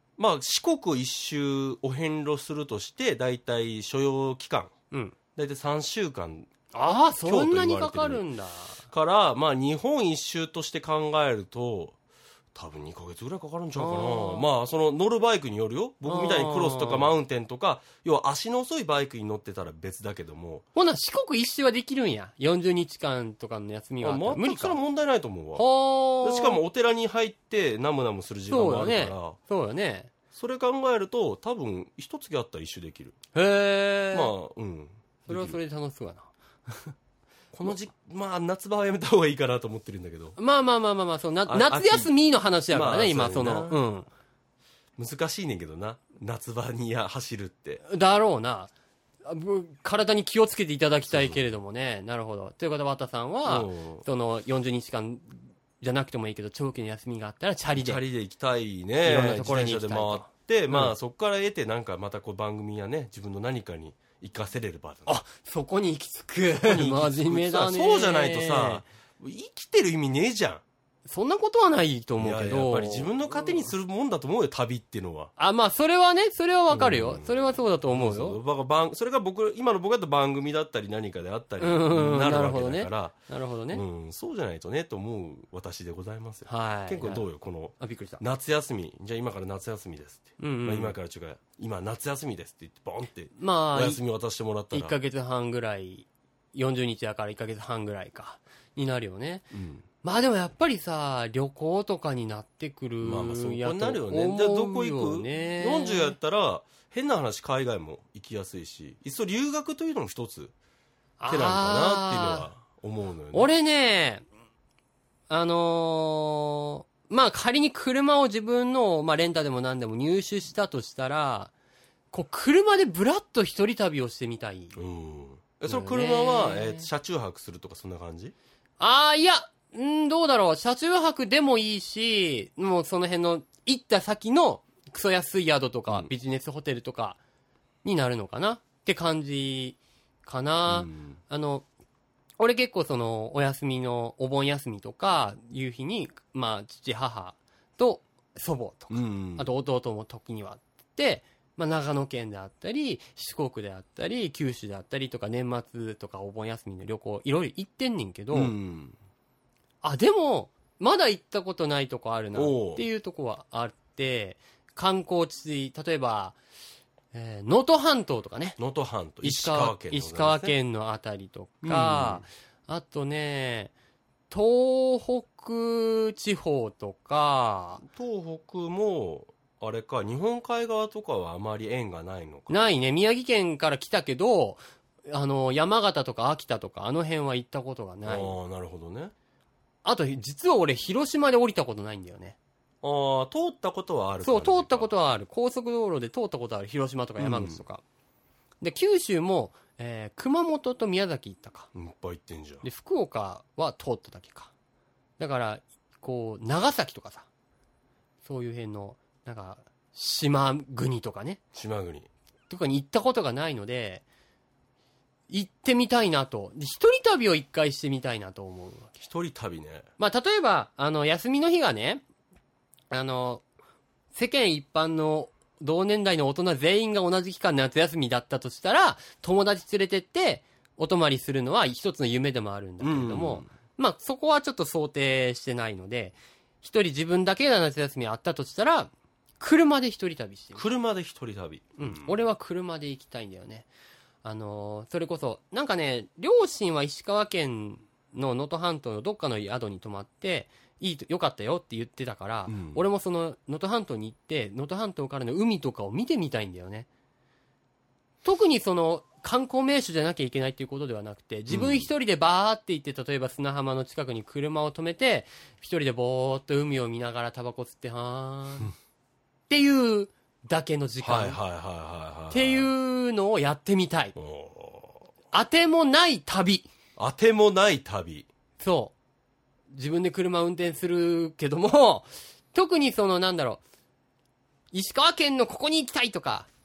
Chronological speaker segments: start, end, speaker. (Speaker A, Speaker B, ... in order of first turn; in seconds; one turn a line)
Speaker A: 0.2-4.7
Speaker A: 5.4-6.5
Speaker B: 6.7-8.8
Speaker A: 7.2-8.2
Speaker A: 8.9-12.0
Speaker A: 12.6-20.6
Speaker B: 13.8-14.5
Speaker B: 16.1-17.1
Speaker B: 20.8-24.8
Speaker A: 24.0-25.7
Speaker B: 25.6-26.6
Speaker A: 26.2-29.4
Speaker B: 28.5-30.1
Speaker A: 30.3-33.1
Speaker B: 33.3-34.3
Speaker A: 34.1-35.6
Speaker B: 35.3-36.9
Speaker A: 37.5-40.4
Speaker B: 40.4-44.1
Speaker A: 41.5-42.1
Speaker A: 42.7-43.8
Speaker A: 45.0-47.8
Speaker B: 47.9-48.7
Speaker B: 49.2-58.0
Speaker A: 51.1-51.4
Speaker A: 53.5-54.0
Speaker A: 57.8-65.1
Speaker B: 59.0-60.9
Speaker B: 65.1-68.8
Speaker A: 66.6-70.6
Speaker B: 71.1-73.7
Speaker A: 72.2-75.3
Speaker B: 75.4-78.4
Speaker A: 76.7-83.2
Speaker B: 81.6-83.8
Speaker A: 83.7-95.0
Speaker B: 86.5-87.2
Speaker B: 87.8-88.2
Speaker B: 90.4-91.0
Speaker B: 93.4-94.0
Speaker B: 94.7-99.5
Speaker A: 99.5-99.8
Speaker B: 100.0-106.2
Speaker A: 103.0-110.5
Speaker B: 111.2-112.5
Speaker A: 111.3-113.5
Speaker B: 113.3-114.2
Speaker B: 115.3-121.5
Speaker B: 122.1-124.8
Speaker A: 124.8-128.3
Speaker B: 125.7-126.9
Speaker B: 128.8-137.2
Speaker B: 137.8-141.7
Speaker A: 140.7-141.2
Speaker B: 142.4-158.6
Speaker A: 148.9-149.5
Speaker A: 158.3-159.0
Speaker B: 159.8-166.4
Speaker A: 162.3-162.8
Speaker B: 167.1-168.6
Speaker A: 168.6-170.6
Speaker B: 169.2-173.7
Speaker A: 171.6-172.3
Speaker B: 174.3-177.8
Speaker A: 177.8-182.6
Speaker B: 182.5-188.4
Speaker A: 188.1-189.1
Speaker B: 189.8-192.4
Speaker A: 192.8-194.9
Speaker B: 194.2-197.8
Speaker A: 197.2-197.6
Speaker B: 198.6-201.7
Speaker A: 201.7-202.7
Speaker B: 202.6-204.5
Speaker B: 205.2-207.3
Speaker B: 208.2-211.4
Speaker A: 211.5-212.1
Speaker B: 212.5-214.0
Speaker B: 215.3-218.9
Speaker A: 219.0-219.9
Speaker B: 220.0-222.0
Speaker B: 222.9-223.4
Speaker B: 224.1-240.6
Speaker A: 232.8-233.5
Speaker A: 240.6-242.2
Speaker B: 241.8-243.7
Speaker B: 244.2-256.9
Speaker A: 252.5-252.8
Speaker B: 258.2-268.7
Speaker A: 261.5-261.9
Speaker B: 269.5-271.4
Speaker A: 271.0-272.7
Speaker B: 272.3-274.2
Speaker A: 274.2-275.1
Speaker B: 275.3-276.7
Speaker A: 277.0-278.3
Speaker B: 278.6-278.9
Speaker B: 279.7-283.6
Speaker B: 284.7-286.5